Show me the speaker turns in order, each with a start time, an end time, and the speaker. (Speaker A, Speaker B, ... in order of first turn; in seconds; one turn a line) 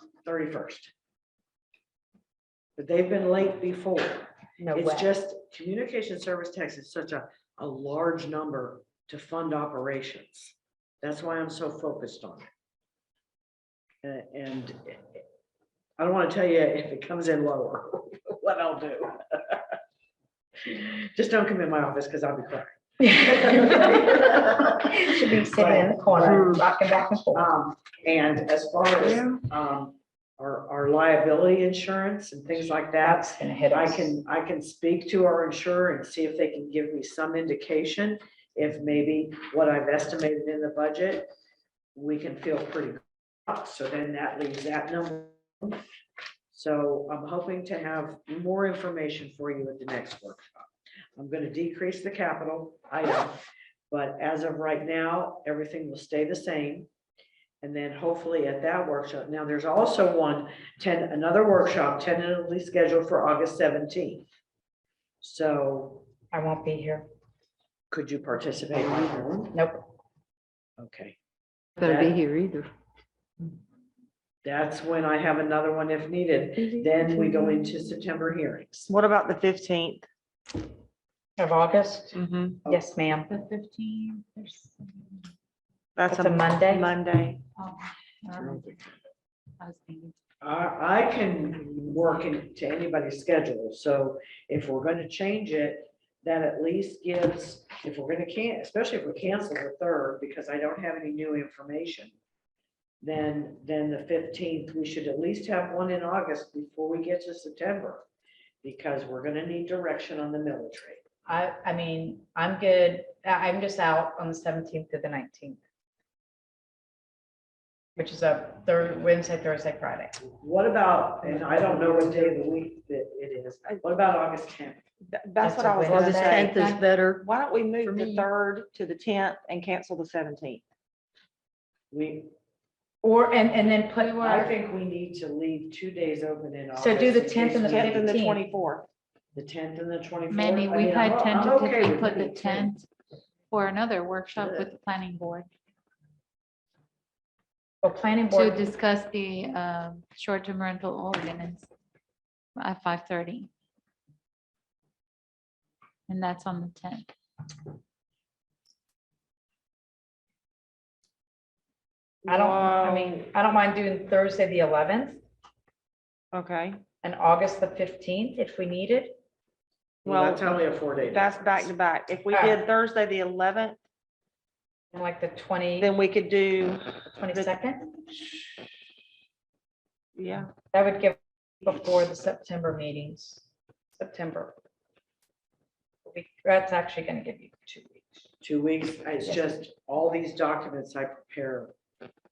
Speaker A: 0.2-0.9
Speaker A: 2.8-12.5
Speaker B: 4.6-5.1
Speaker A: 14.0-15.2
Speaker A: 16.0-19.6
Speaker A: 20.6-26.6
Speaker B: 23.1-24.1
Speaker B: 24.7-27.4
Speaker A: 27.3-41.3
Speaker C: 29.0-29.4
Speaker B: 33.0-34.2
Speaker A: 42.0-45.8
Speaker A: 46.5-56.9
Speaker A: 57.6-64.3
Speaker A: 65.2-66.1
Speaker B: 66.3-67.1
Speaker A: 67.9-69.5
Speaker B: 69.5-69.9
Speaker A: 70.8-71.1
Speaker A: 71.8-72.2
Speaker D: 71.8-72.7
Speaker A: 74.4-78.9
Speaker C: 78.9-80.1
Speaker B: 81.4-83.3
Speaker C: 82.1-82.6
Speaker E: 83.3-85.2
Speaker C: 86.0-87.4
Speaker B: 86.1-86.9
Speaker E: 87.5-88.8
Speaker A: 88.4-88.7
Speaker E: 89.6-90.2
Speaker A: 90.4-102.1
Speaker A: 103.0-108.0
Speaker A: 108.6-111.0
Speaker B: 111.2-115.6
Speaker B: 118.0-120.2
Speaker A: 120.4-124.8
Speaker C: 125.1-126.6
Speaker B: 125.4-126.5
Speaker D: 125.8-127.2
Speaker E: 126.6-126.8
Speaker C: 127.2-130.6
Speaker D: 127.8-128.2
Speaker A: 131.9-132.3
Speaker B: 133.0-134.4
Speaker E: 134.0-134.5
Speaker A: 134.2-138.2
Speaker B: 136.7-138.4
Speaker C: 137.7-138.8
Speaker A: 139.3-142.7
Speaker E: 140.3-142.8
Speaker E: 143.5-145.5
Speaker A: 144.4-144.7
Speaker B: 147.8-148.6
Speaker E: 148.3-151.7
Speaker E: 152.6-153.5
Speaker E: 156.1-157.1
Speaker C: 162.2-163.2
Speaker B: 162.3-165.2
Speaker C: 166.3-166.8
Speaker B: 167.0-169.2
Speaker A: 170.0-171.7
Speaker C: 170.1-170.6
Speaker C: 171.1-173.8
Speaker B: 172.3-172.6
Speaker B: 174.9-175.9
Speaker C: 175.8-177.6
Speaker B: 177.1-177.8
Speaker C: 180.2-180.5
Speaker B: 180.7-183.4
Speaker B: 183.9-184.5
Speaker B: 186.0-188.1
Speaker A: 188.4-191.7